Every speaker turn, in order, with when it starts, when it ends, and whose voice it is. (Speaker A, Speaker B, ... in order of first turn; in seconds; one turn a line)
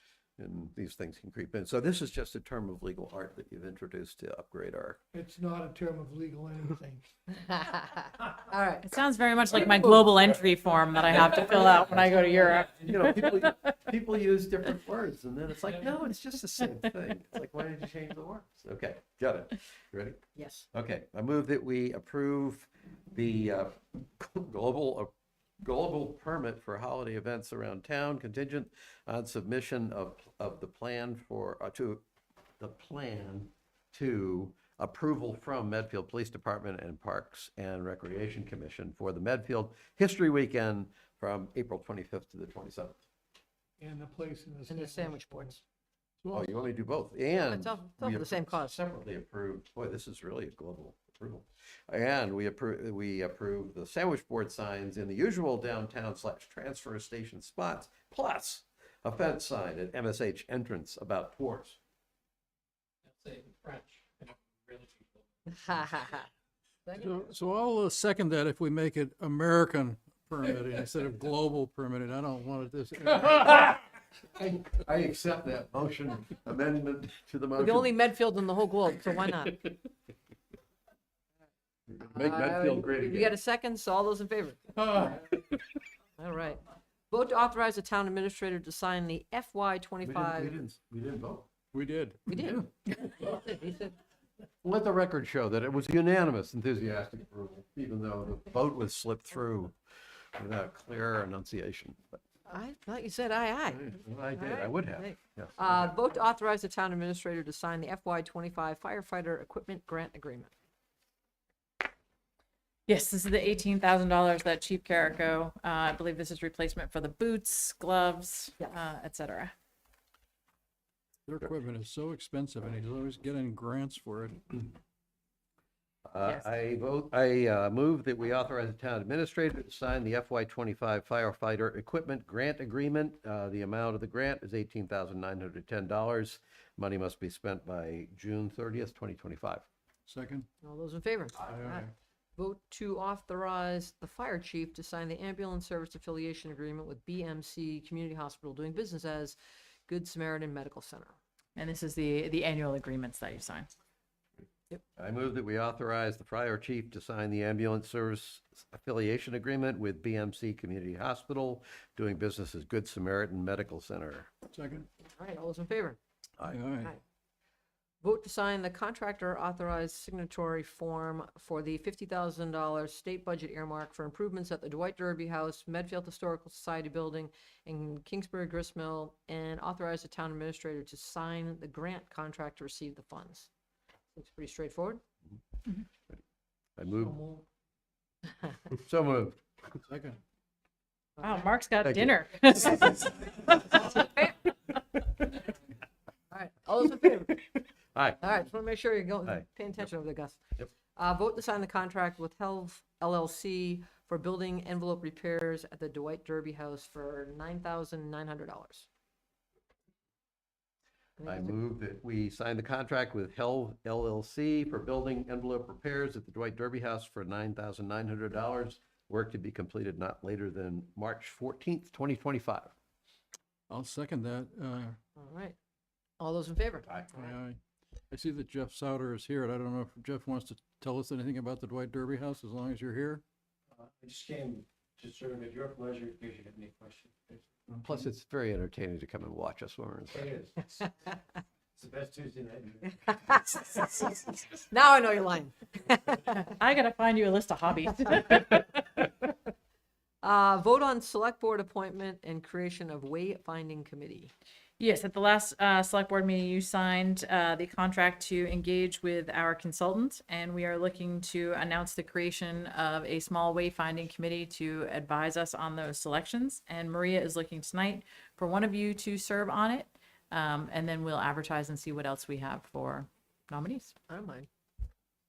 Speaker A: 0.4-5.0
Speaker B: 5.1-7.0
Speaker C: 7.3-8.9
Speaker D: 8.8-13.7
Speaker A: 9.6-10.4
Speaker A: 11.1-20.2
Speaker C: 20.3-20.7
Speaker A: 20.7-32.0
Speaker A: 32.6-43.0
Speaker B: 43.8-45.6
Speaker C: 44.7-45.6
Speaker A: 46.3-61.8
Speaker C: 47.3-48.8
Speaker E: 63.2-64.3
Speaker C: 65.5-66.3
Speaker C: 66.9-67.2
Speaker F: 66.9-73.8
Speaker A: 73.5-73.7
Speaker A: 74.2-77.9
Speaker C: 77.6-79.6
Speaker A: 81.9-83.4
Speaker C: 82.0-85.1
Speaker C: 86.2-90.5
Speaker A: 90.0-91.5
Speaker F: 91.7-92.7
Speaker C: 92.3-93.9
Speaker A: 94.6-99.8
Speaker A: 100.3-102.2
Speaker C: 102.5-110.5
Speaker A: 103.7-105.9
Speaker D: 112.9-119.5
Speaker F: 121.3-124.6
Speaker A: 126.0-139.7
Speaker D: 126.2-126.5
Speaker F: 140.1-140.4
Speaker C: 140.6-151.2
Speaker F: 141.4-141.9
Speaker D: 151.6-153.7
Speaker A: 154.9-164.3
Speaker F: 164.5-164.9
Speaker C: 165.0-166.0
Speaker F: 166.4-166.9
Speaker C: 168.0-183.5
Speaker C: 184.1-185.0
Speaker A: 186.8-187.2
Speaker A: 188.7-189.8
Speaker F: 189.9-190.2
Speaker D: 191.2-193.4
Speaker A: 191.8-193.2
Speaker C: 193.5-194.3
Speaker C: 196.3-197.4
Speaker C: 198.2-200.4
Speaker C: 200.9-208.9
Speaker C: 211.2-211.5
Speaker A: 211.2-222.7
Speaker F: 223.7-225.0
Speaker C: 225.2-225.6
Speaker C: 226.2-227.3
Speaker F: 227.1-227.6
Speaker F: 228.1-233.2
Speaker E: 233.8-237.7
Speaker A: 237.8-240.3
Speaker E: 240.2-240.8
Speaker E: 241.8-243.1
Speaker C: 243.0-246.4
Speaker D: 246.3-248.8
Speaker C: 250.2-254.3
Speaker D: 254.8-273.9
Speaker C: 274.1-274.5